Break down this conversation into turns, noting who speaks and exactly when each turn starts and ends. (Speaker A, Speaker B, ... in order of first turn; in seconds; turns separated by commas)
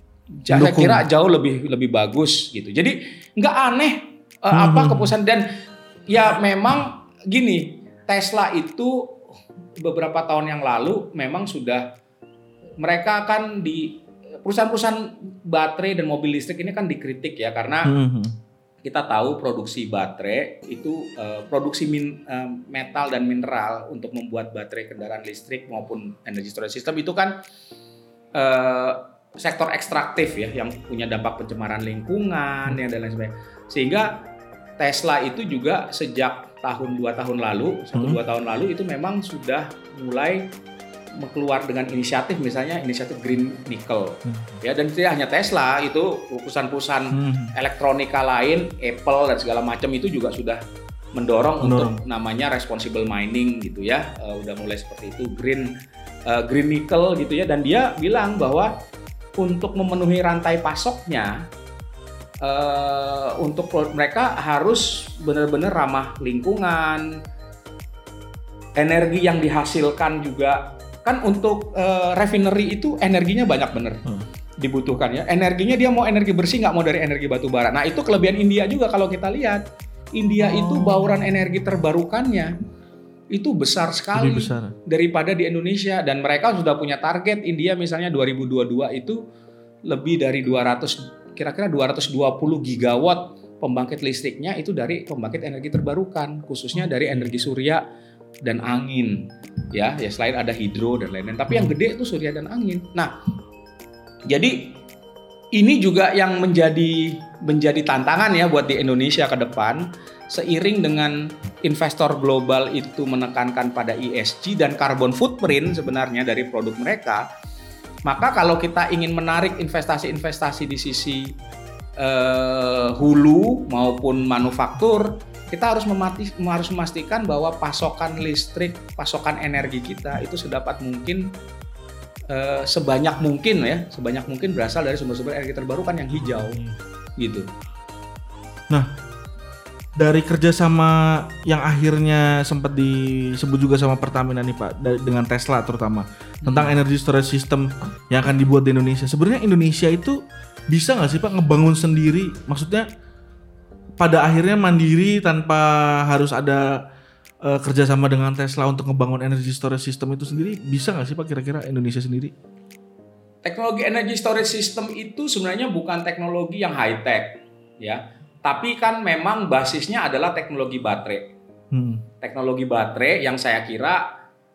Speaker A: 0.4-5.5, Speaker B: 0.5-1.0, Speaker B: 4.5-5.1, Speaker A: 6.1-9.2, Speaker A: 9.8-11.9, Speaker A: 12.8-17.9, Speaker B: 17.9-18.4, Speaker A: 18.9-27.3, Speaker A: 28.4-34.1, Speaker A: 34.8-40.5, Speaker B: 37.9-38.2, Speaker A: 41.2-50.6, Speaker B: 44.3-44.6, Speaker B: 47.1-47.5, Speaker A: 51.1-55.7, Speaker B: 51.6-52.0, Speaker A: 56.3-58.7, Speaker A: 59.4-61.5, Speaker A: 62.4-67.1, Speaker A: 68.8-74.0, Speaker A: 74.6-79.6, Speaker A: 80.2-82.5, Speaker B: 80.4-81.4, Speaker A: 83.3-89.2, Speaker B: 84.2-84.8, Speaker A: 89.9-97.8, Speaker B: 96.9-97.3, Speaker A: 98.4-103.1, Speaker A: 104.3-104.8, Speaker A: 105.6-117.2, Speaker A: 118.1-121.3, Speaker A: 122.0-131.3, Speaker A: 132.3-136.6, Speaker B: 136.2-136.8, Speaker A: 137.2-137.5, Speaker B: 140.0-152.9, Speaker A: 146.4-146.7, Speaker B: 154.0-156.8, Speaker B: 157.4-162.3, Speaker A: 163.4-171.3, Speaker B: 171.7-172.0, Speaker A: 172.2-174.0